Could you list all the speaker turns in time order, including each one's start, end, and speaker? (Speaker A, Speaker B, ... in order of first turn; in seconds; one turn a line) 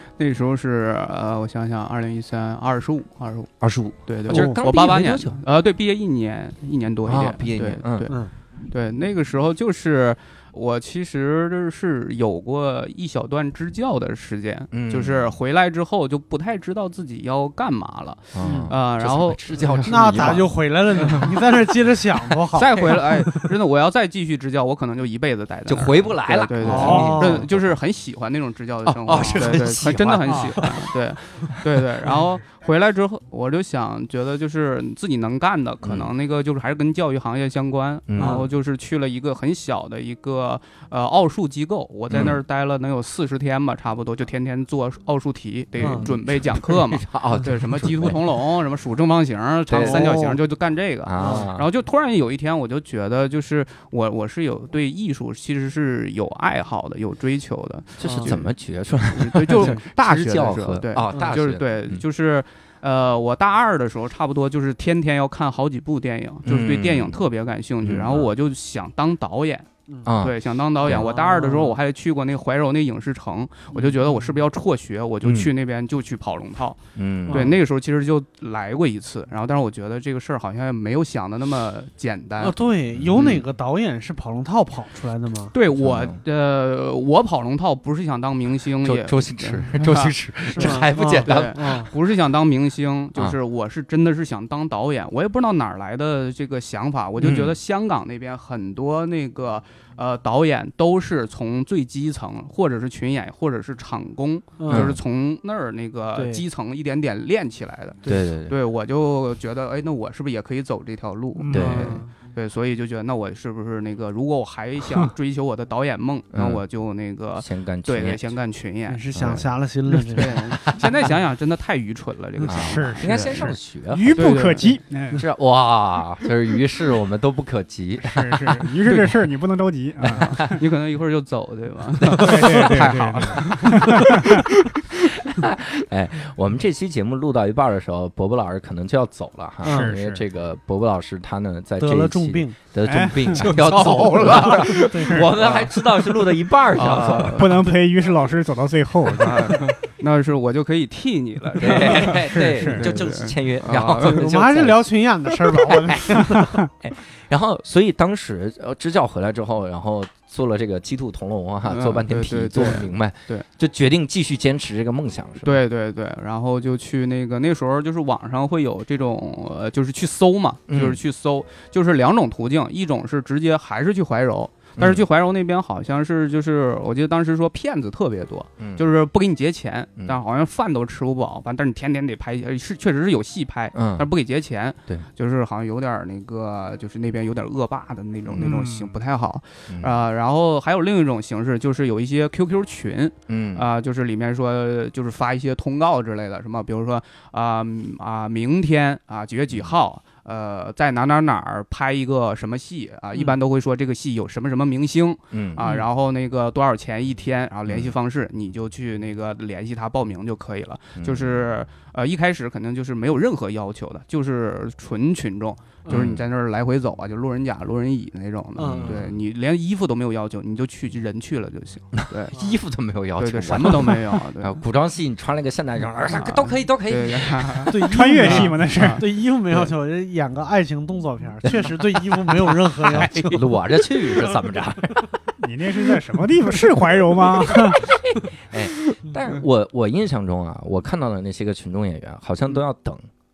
Speaker A: 0.2-3.5
Speaker B: 3.6-5.4
Speaker A: 4.1-19.4
Speaker C: 4.3-4.6
Speaker B: 7.1-8.1
Speaker B: 14.7-15.4
Speaker B: 18.3-21.3
Speaker C: 18.4-18.7
Speaker C: 19.9-23.5
Speaker A: 21.0-21.3
Speaker A: 22.5-58.5
Speaker B: 22.7-23.0
Speaker B: 25.7-27.8
Speaker C: 26.6-27.5
Speaker D: 26.8-27.1
Speaker B: 28.9-30.9
Speaker D: 29.2-29.4
Speaker D: 30.2-30.6
Speaker B: 35.8-36.1
Speaker B: 38.1-38.4
Speaker C: 38.2-38.5
Speaker B: 42.1-42.4
Speaker C: 45.8-46.1
Speaker B: 45.8-48.2
Speaker B: 49.7-50.1
Speaker C: 49.8-50.4
Speaker B: 51.0-51.7
Speaker C: 51.2-51.5
Speaker B: 58.0-62.0
Speaker C: 58.0-58.4
Speaker A: 59.1-69.7
Speaker B: 66.5-67.2
Speaker B: 67.8-68.3
Speaker B: 70.0-71.1
Speaker A: 70.2-82.6
Speaker C: 70.9-71.8
Speaker C: 73.7-74.4
Speaker B: 75.2-75.5
Speaker B: 77.0-77.5
Speaker C: 77.3-77.6
Speaker C: 82.4-85.5
Speaker B: 83.0-83.4
Speaker A: 85.5-119.4
Speaker B: 85.8-86.2
Speaker B: 88.8-91.6
Speaker C: 90.5-91.9
Speaker B: 97.2-97.6
Speaker C: 104.6-105.0
Speaker B: 104.7-105.0
Speaker C: 106.2-106.4
Speaker B: 108.1-108.5
Speaker D: 111.3-111.8
Speaker B: 111.5-112.0
Speaker C: 111.5-112.1
Speaker B: 116.3-116.6
Speaker B: 117.4-118.3
Speaker C: 118.9-120.5
Speaker B: 119.1-119.5
Speaker A: 120.1-123.5
Speaker B: 120.3-120.8
Speaker B: 122.5-124.3
Speaker D: 122.6-125.2
Speaker A: 124.2-124.8
Speaker B: 125.1-128.4
Speaker D: 128.0-130.5
Speaker A: 128.9-129.2
Speaker B: 130.0-130.6
Speaker A: 130.1-134.8
Speaker D: 132.2-134.5
Speaker B: 135.2-147.6
Speaker C: 139.6-139.9
Speaker D: 139.7-140.2
Speaker C: 141.8-142.6
Speaker D: 142.8-143.5
Speaker C: 143.4-145.3
Speaker A: 143.5-145.8
Speaker D: 145.0-145.3
Speaker A: 146.7-147.7
Speaker D: 147.2-149.7
Speaker A: 149.2-154.2
Speaker B: 151.6-154.9
Speaker D: 152.1-152.9
Speaker C: 154.0-156.5
Speaker B: 155.6-165.6
Speaker D: 156.2-156.6
Speaker A: 161.7-163.5
Speaker A: 165.4-222.3
Speaker B: 170.7-171.0
Speaker B: 174.8-175.1
Speaker B: 178.6-178.8
Speaker B: 183.7-184.1
Speaker D: 188.4-188.9
Speaker B: 189.7-190.0
Speaker B: 193.3-193.7
Speaker B: 205.3-205.6
Speaker C: 205.6-205.9
Speaker B: 207.7-207.9
Speaker B: 211.0-211.4
Speaker B: 215.9-216.2
Speaker C: 218.6-219.1
Speaker B: 218.6-219.1
Speaker B: 221.9-227.7
Speaker A: 223.2-224.6
Speaker A: 226.1-229.7
Speaker D: 227.7-229.0
Speaker C: 227.7-234.3
Speaker B: 231.4-232.1
Speaker B: 232.8-235.1
Speaker D: 235.4-237.9
Speaker B: 237.9-243.1